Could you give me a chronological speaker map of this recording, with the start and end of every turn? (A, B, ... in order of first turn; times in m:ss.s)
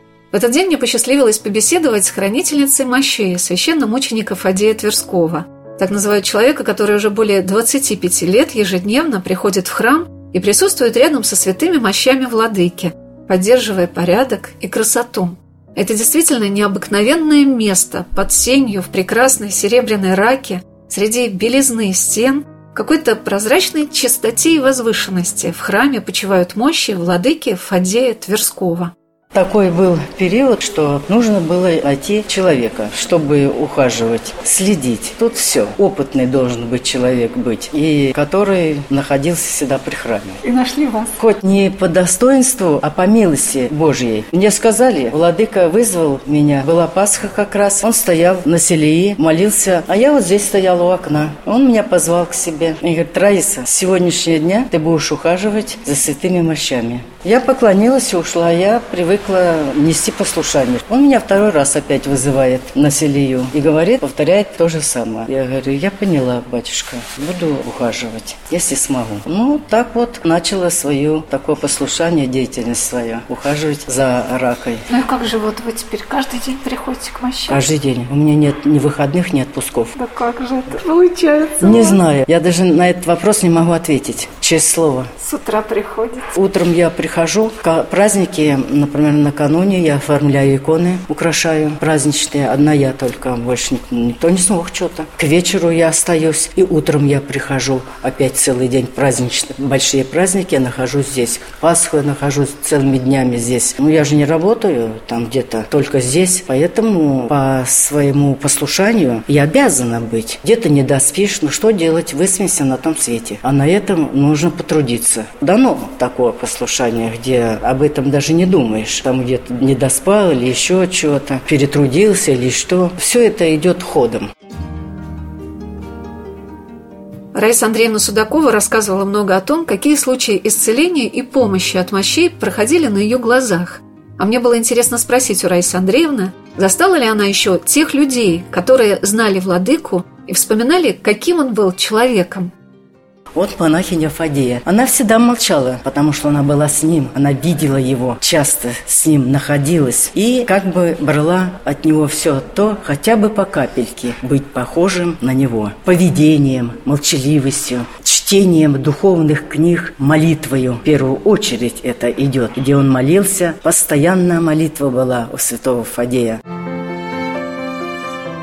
0:00.3-0:28.9 A
0:29.3-0:40.4 B
0:40.4-0:41.1 A
0:41.2-1:14.8 B
1:14.9-1:17.6 A
1:17.5-1:19.9 B
1:19.9-1:22.0 A
1:21.6-1:25.1 B
1:25.2-1:26.3 A
1:26.3-2:04.3 B
2:07.3-2:22.5 A
2:23.3-2:46.4 B